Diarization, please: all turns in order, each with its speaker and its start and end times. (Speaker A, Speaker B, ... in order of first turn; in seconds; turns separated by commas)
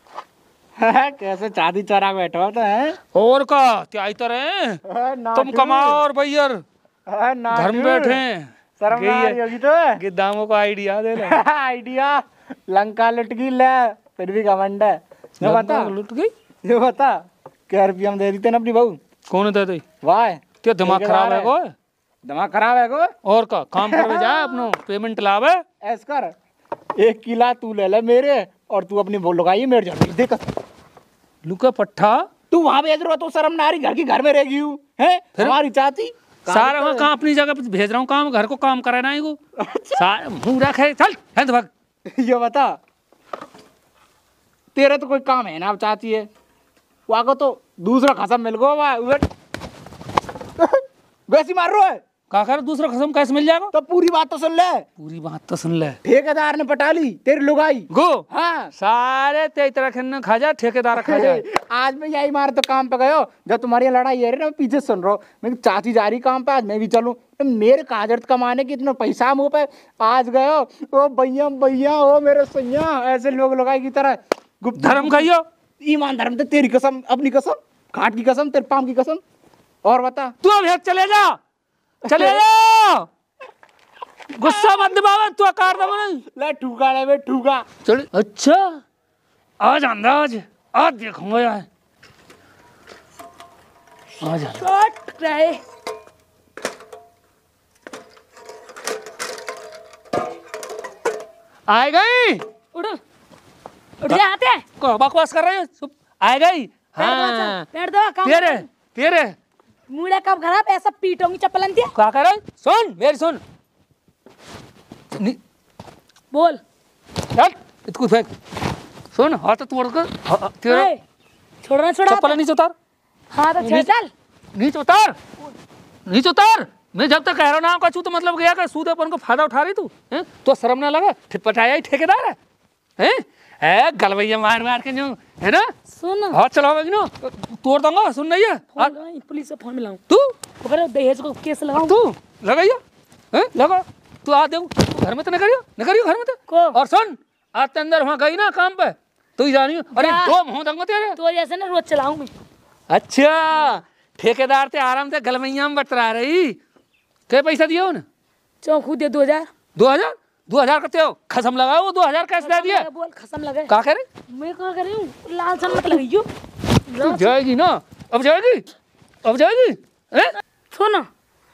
Speaker A: 0.8-3.0, Speaker B: 3.1-4.8, Speaker A: 4.9-6.0, Speaker B: 5.3-6.6, Speaker A: 7.1-8.2, Speaker B: 7.5-9.4, Speaker A: 8.8-10.0, Speaker B: 10.0-11.4, Speaker A: 11.2-15.9, Speaker B: 15.4-16.3, Speaker A: 16.6-19.0, Speaker B: 19.3-19.8, Speaker A: 20.0-21.5, Speaker B: 20.6-21.7, Speaker A: 22.2-23.1, Speaker B: 23.2-25.6, Speaker A: 23.8-24.6, Speaker A: 25.8-26.3, Speaker A: 27.0-30.5, Speaker B: 31.4-32.3, Speaker A: 32.5-37.1, Speaker B: 36.5-39.4, Speaker A: 39.6-40.0, Speaker B: 39.9-41.7, Speaker A: 42.1-42.8, Speaker A: 44.8-46.3, Speaker A: 47.1-49.3, Speaker A: 50.6-52.0, Speaker B: 52.3-53.7, Speaker A: 53.7-54.9, Speaker B: 55.0-56.0, Speaker A: 56.0-58.7, Speaker B: 57.9-58.2, Speaker B: 58.8-61.4, Speaker A: 61.0-79.2, Speaker B: 74.8-75.5, Speaker A: 79.8-80.3, Speaker B: 80.4-81.4, Speaker B: 82.0-83.1, Speaker A: 82.1-82.4, Speaker B: 84.3-86.2, Speaker A: 86.3-87.7, Speaker B: 87.9-88.8, Speaker B: 89.6-91.7, Speaker B: 94.2-94.6, Speaker C: 94.5-95.6, Speaker B: 101.7-102.5, Speaker C: 102.7-103.0, Speaker C: 104.0-104.6, Speaker B: 104.8-107.7, Speaker C: 107.0-108.7, Speaker B: 108.2-109.3, Speaker C: 109.9-111.9, Speaker B: 112.0-113.4, Speaker C: 116.3-116.6, Speaker B: 117.3-118.3, Speaker B: 119.1-120.9, Speaker C: 120.7-121.0, Speaker C: 121.6-122.4, Speaker B: 122.1-122.7, Speaker C: 123.3-124.1, Speaker B: 123.6-123.9, Speaker B: 124.5-125.2, Speaker B: 126.1-132.4, Speaker B: 133.0-135.7, Speaker C: 135.9-136.4, Speaker B: 136.3-138.9, Speaker C: 138.8-140.0, Speaker C: 140.6-142.0, Speaker B: 141.8-142.8, Speaker B: 143.3-151.2, Speaker C: 146.5-146.8, Speaker C: 149.9-150.4, Speaker C: 151.1-152.3, Speaker B: 152.9-156.6, Speaker B: 157.3-158.0, Speaker C: 158.6-159.5, Speaker B: 159.8-162.9, Speaker C: 162.4-163.7, Speaker B: 163.7-164.1, Speaker C: 164.3-166.3, Speaker C: 166.9-167.3, Speaker B: 167.0-168.7, Speaker B: 169.2-170.4, Speaker C: 170.7-171.1